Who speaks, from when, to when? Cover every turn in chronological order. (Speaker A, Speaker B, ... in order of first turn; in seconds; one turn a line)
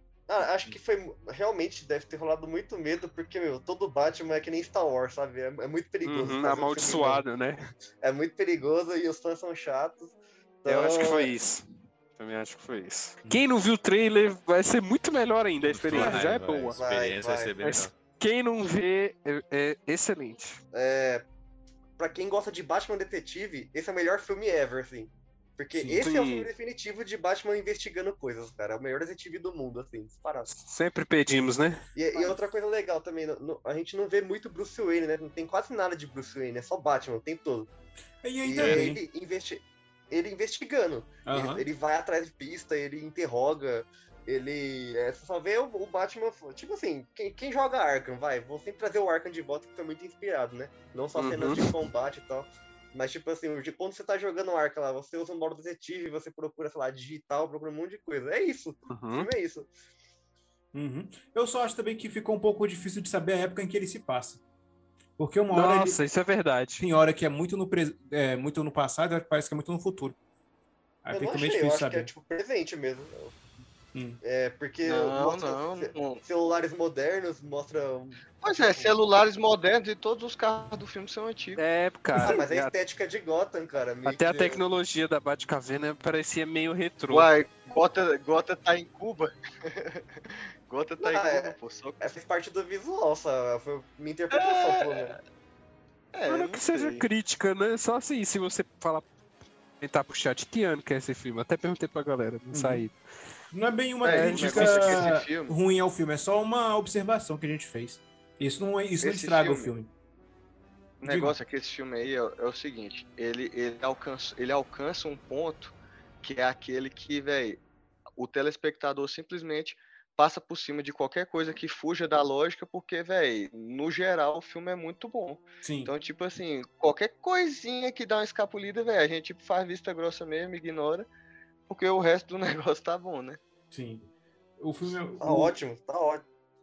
Speaker A: 0.3-7.2
Speaker B: 6.0-7.6
Speaker A: 8.0-11.3
Speaker B: 10.7-16.8
Speaker C: 15.7-17.9
Speaker D: 15.9-16.2
Speaker A: 16.8-17.5
Speaker B: 17.6-20.6
Speaker A: 20.7-21.2
Speaker A: 22.0-30.5
Speaker D: 25.7-26.0
Speaker B: 26.0-26.5
Speaker B: 30.5-31.8
Speaker A: 31.9-37.7
Speaker D: 38.2-39.0
Speaker A: 38.4-59.7
Speaker D: 41.2-41.6
Speaker B: 51.1-51.7
Speaker B: 58.9-59.3
Speaker D: 60.7-64.4
Speaker D: 65.2-66.0
Speaker B: 65.5-66.8
Speaker D: 66.8-70.2
Speaker D: 71.0-72.1
Speaker A: 71.1-73.3
Speaker D: 73.9-74.2
Speaker A: 74.2-78.9
Speaker E: 74.8-76.2
Speaker E: 78.4-81.6
Speaker B: 81.6-82.7
Speaker A: 82.2-84.6
Speaker B: 84.0-87.3
Speaker E: 87.1-92.1
Speaker A: 91.0-95.2
Speaker E: 94.3-95.2
Speaker E: 96.1-97.0
Speaker B: 96.2-99.1
Speaker B: 99.8-103.0
Speaker D: 102.5-102.8
Speaker D: 103.5-109.9
Speaker E: 104.0-105.5
Speaker B: 104.0-105.1
Speaker E: 109.0-109.7
Speaker E: 111.0-117.6
Speaker D: 111.0-111.4
Speaker E: 118.2-131.1
Speaker D: 125.6-125.9
Speaker E: 131.7-133.4
Speaker D: 133.7-134.1
Speaker D: 134.6-135.5
Speaker A: 135.2-136.2